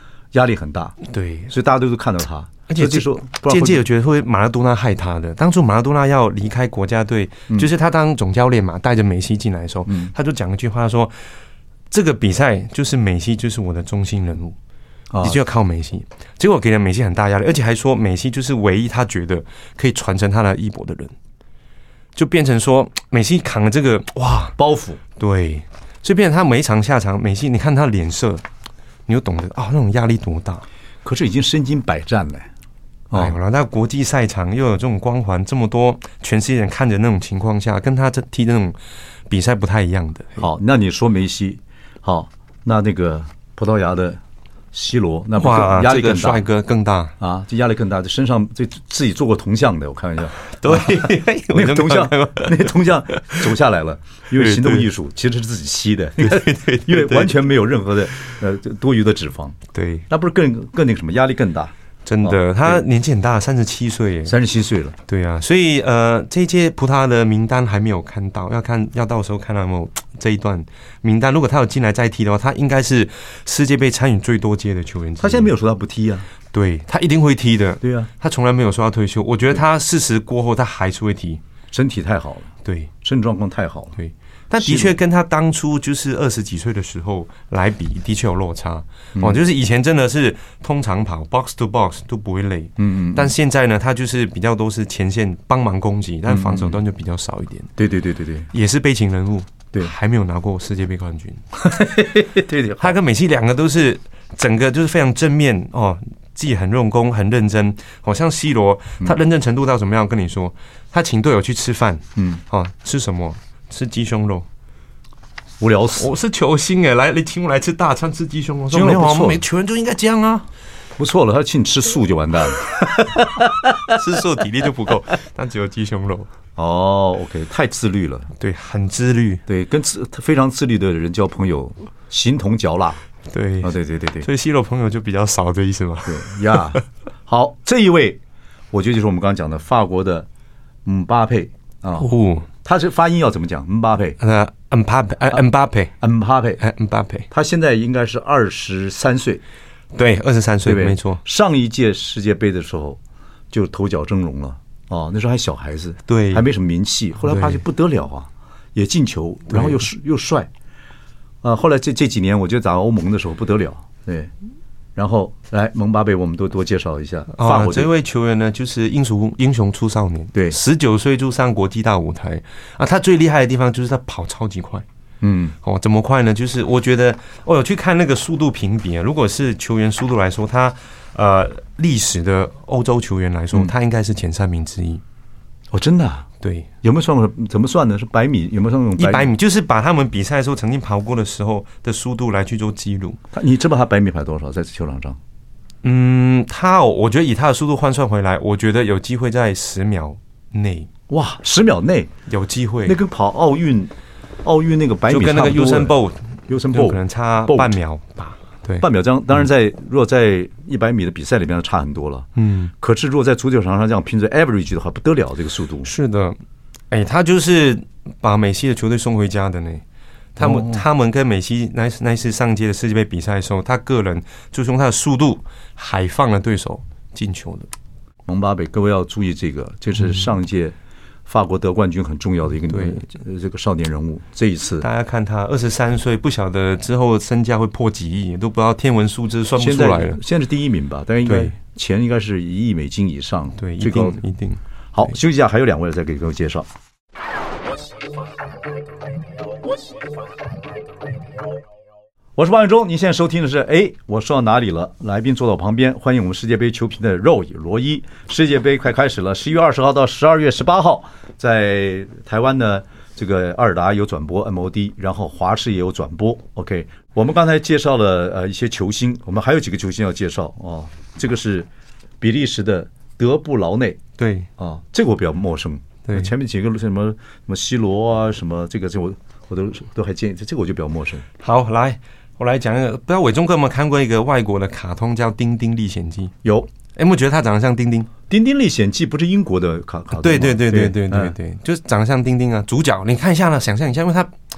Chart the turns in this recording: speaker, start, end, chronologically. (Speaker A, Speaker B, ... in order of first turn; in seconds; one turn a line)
Speaker A: 0.3-1.0
Speaker B: 1.0-1.5
Speaker A: 1.5-3.8
Speaker B: 2.7-11.3
Speaker A: 9.9-10.1
Speaker B: 11.9-14.6
Speaker A: 15.1-15.4
Speaker B: 15.2-21.1
Speaker B: 22.1-24.6
Speaker A: 24.6-25.0
Speaker B: 25.2-28.4
Speaker B: 29.1-30.6
Speaker A: 31.0-32.5
Speaker A: 33.1-33.4
Speaker B: 33.1-38.8
Speaker B: 39.3-40.5
Speaker A: 40.4-44.2
Speaker A: 44.7-46.5
Speaker B: 45.4-47.1
Speaker A: 47.2-59.6
Speaker B: 50.5-53.4
Speaker B: 54.4-54.9
Speaker B: 56.2-57.4
Speaker B: 59.7-60.1
Speaker A: 60.1-61.7
Speaker B: 62.0-64.3
Speaker A: 62.2-62.8
Speaker A: 64.3-65.0
Speaker B: 65.1-75.5
Speaker A: 75.2-76.3
Speaker B: 76.5-81.4
Speaker A: 77.8-78.1
Speaker A: 81.7-84.0
Speaker B: 82.6-82.9
Speaker B: 84.0-97.7
Speaker A: 84.6-85.0
Speaker A: 89.2-89.4
Speaker A: 92.8-93.3
Speaker A: 96.3-96.8
Speaker A: 97.8-98.5
Speaker B: 98.5-101.5
Speaker A: 101.6-103.0
Speaker B: 102.8-114.5
Speaker A: 112.2-112.4
Speaker A: 115.6-116.1
Speaker B: 116.0-120.5
Speaker A: 118.7-119.4
Speaker A: 121.0-123.9
Speaker B: 123.9-126.3
Speaker A: 126.6-128.3
Speaker B: 128.4-129.4
Speaker A: 129.5-133.0
Speaker B: 133.3-136.8
Speaker A: 133.6-134.3
Speaker A: 136.1-138.2
Speaker A: 138.7-140.3
Speaker A: 140.8-142.1
Speaker B: 142.0-142.5
Speaker A: 142.6-144.2
Speaker B: 144.2-145.9
Speaker A: 146.0-146.6
Speaker B: 146.6-147.3
Speaker A: 147.3-149.4
Speaker B: 149.9-151.2
Speaker A: 150.7-153.0
Speaker A: 153.5-160.5
Speaker B: 156.1-156.5
Speaker B: 157.2-157.6
Speaker B: 159.5-159.8
Speaker A: 161.4-164.3
Speaker A: 165.0-167.9
Speaker B: 167.3-174.8
Speaker A: 175.2-175.6
Speaker B: 175.6-185.0
Speaker A: 185.7-186.3
Speaker B: 186.4-186.7
Speaker A: 186.8-189.3
Speaker B: 189.0-193.2
Speaker A: 193.3-195.2
Speaker B: 195.8-200.9
Speaker A: 201.1-202.1
Speaker B: 202.3-203.0
Speaker A: 202.8-205.9
Speaker B: 205.1-208.9
Speaker A: 206.5-207.8
Speaker A: 208.8-212.3
Speaker B: 212.4-212.7
Speaker A: 212.8-215.9
Speaker B: 215.8-216.4
Speaker B: 216.9-219.8
Speaker B: 220.3-227.7
Speaker A: 220.4-220.8
Speaker A: 228.3-234.9
Speaker B: 230.0-230.3
Speaker B: 232.7-233.0
Speaker B: 234.8-240.2
Speaker A: 239.6-244.2
Speaker B: 241.3-241.6
Speaker B: 243.6-244.6
Speaker A: 244.9-246.7
Speaker A: 252.4-271.7
Speaker A: 272.2-274.0
Speaker B: 274.2-274.5
Speaker A: 274.6-281.3
Speaker B: 276.1-276.3
Speaker B: 281.4-286.4
Speaker A: 286.4-286.7
Speaker B: 286.9-288.1
Speaker A: 288.3-291.3
Speaker B: 290.1-294.3